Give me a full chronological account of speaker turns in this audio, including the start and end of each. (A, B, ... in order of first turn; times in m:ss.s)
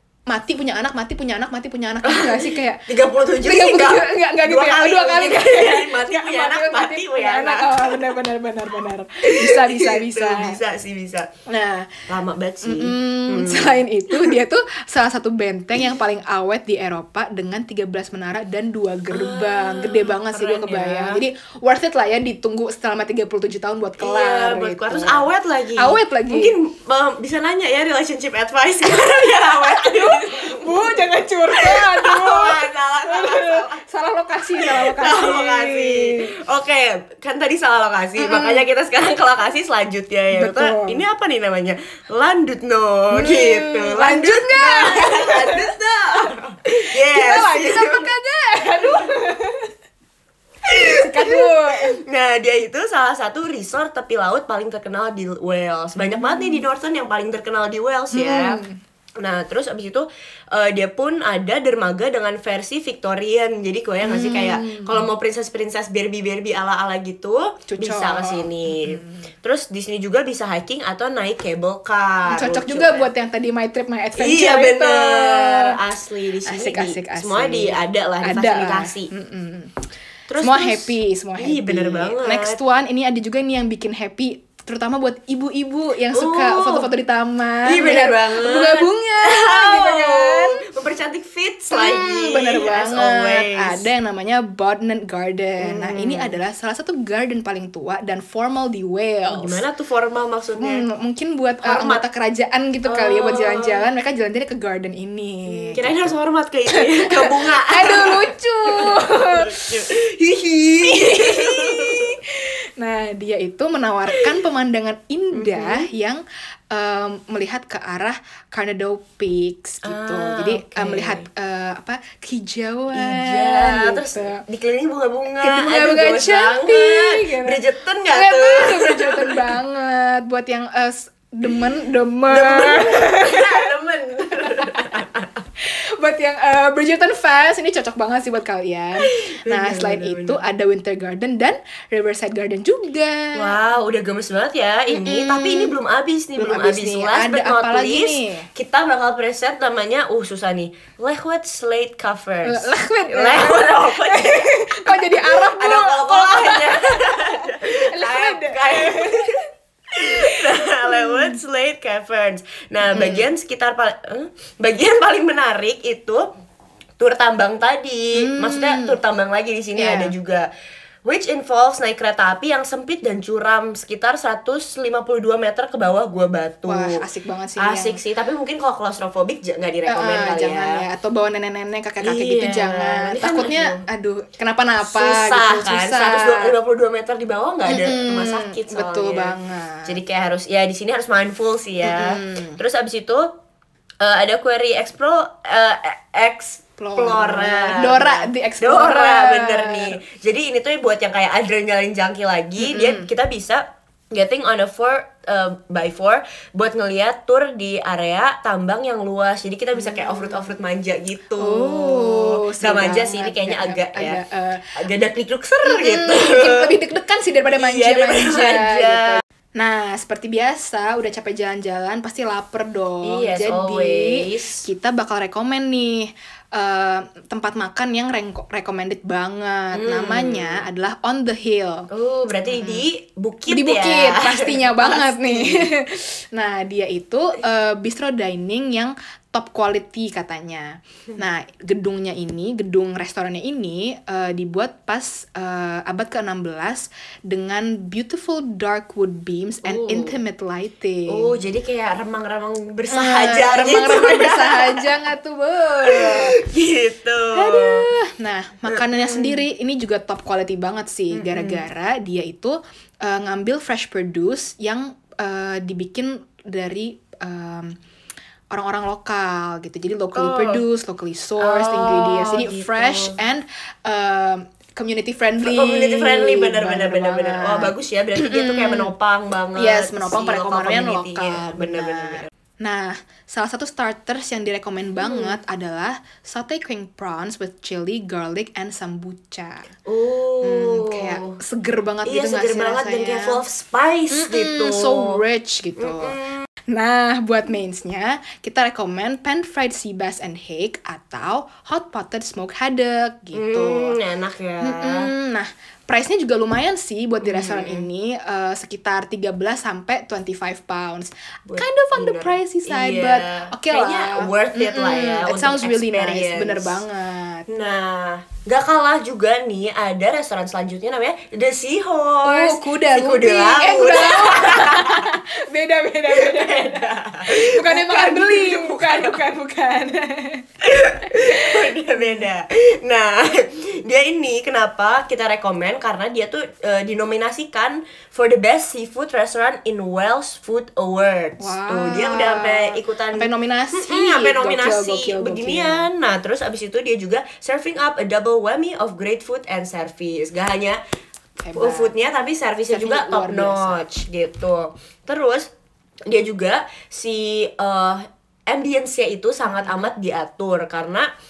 0:00.3-0:02.8 A
0:02.0-0:08.2 B
0:03.4-0:10.6 A
0:09.2-0:11.3 B
0:11.5-0:12.0 A
0:12.1-0:14.4 B
0:12.6-0:26.6 A
0:19.1-0:21.2 B
0:24.0-0:33.8 B
0:28.9-0:36.3 A
0:34.6-0:48.1 B
0:38.2-0:38.6 A
0:40.3-0:41.0 A
0:43.1-0:45.7 A
0:47.0-0:49.7 A
0:50.6-0:58.6 B
0:50.8-0:52.0 A
0:56.1-0:56.6 A
0:58.1-0:58.8 A
0:59.2-1:13.1 B
1:04.0-1:05.0 A
1:07.7-1:09.2 A
1:12.2-1:15.8 A
1:14.2-1:19.1 B
1:16.4-1:19.7 A
1:20.3-1:22.6 B
1:20.4-1:30.6 A
1:26.1-1:26.9 B
1:27.6-1:33.9 B
1:31.7-1:39.6 A
1:35.6-1:36.4 B
1:39.3-1:40.8 B
1:40.6-1:46.1 A
1:41.6-1:42.0 B
1:42.8-1:43.9 B
1:45.5-1:52.2 B
1:46.7-1:49.7 A
1:50.8-2:04.4 A
1:55.3-1:55.9 B
1:59.8-2:01.2 B
2:02.9-2:09.5 B
2:05.4-2:13.7 A
2:12.3-2:15.4 B
2:16.0-2:23.6 A
2:19.1-2:20.4 B
2:23.3-2:39.4 B
2:24.9-2:25.8 A
2:26.4-2:28.5 A
2:32.4-2:39.4 A
2:39.9-2:46.2 B
2:40.2-2:41.4 A
2:42.8-2:43.3 A
2:47.0-2:50.4 B
2:48.1-2:49.0 A
2:49.8-2:50.1 A
2:51.0-2:57.0 B
2:56.6-2:58.0 A
2:57.6-3:00.8 B
2:59.9-3:06.5 A
3:02.0-3:03.8 B
3:04.8-3:09.3 B
3:07.6-3:10.0 A
3:09.9-3:13.3 B
3:11.8-3:12.6 A
3:14.0-3:34.2 B
3:16.8-3:20.0 A
3:22.6-3:23.1 A
3:29.7-3:30.5 A
3:31.4-3:34.8 A
3:34.8-3:36.8 B
3:35.6-3:51.9 A
3:37.5-3:39.2 B
3:43.0-3:44.6 B
3:49.7-3:50.6 B
3:51.9-3:55.7 B
3:52.4-3:52.8 A
3:53.5-4:11.3 A
4:09.6-4:10.2 B
4:11.1-4:14.9 B
4:12.9-4:16.3 A
4:15.8-4:17.9 B
4:17.3-4:27.7 A
4:18.7-4:19.4 B
4:21.1-4:21.6 B
4:28.5-4:38.9 A
4:30.1-4:30.6 B
4:31.4-4:33.2 B
4:35.4-4:42.3 B
4:39.6-4:49.7 A
4:45.0-4:45.4 B
4:49.8-4:51.4 B
4:50.4-4:53.4 A
4:52.0-4:55.2 B
4:54.1-4:56.2 A
4:55.8-4:56.4 B
4:56.7-5:04.0 A
5:03.3-5:05.1 B
5:04.6-5:17.5 A
5:07.2-5:07.9 B
5:11.5-5:16.8 B
5:17.5-5:25.1 B
5:22.2-5:30.4 A
5:26.1-5:29.2 B
5:30.6-5:50.8 B
5:31.0-5:32.3 A
5:41.4-5:45.9 A
5:51.4-5:51.9 A
5:51.5-5:55.5 B
5:52.7-5:53.8 A
5:56.1-6:01.1 B
5:59.4-5:59.9 A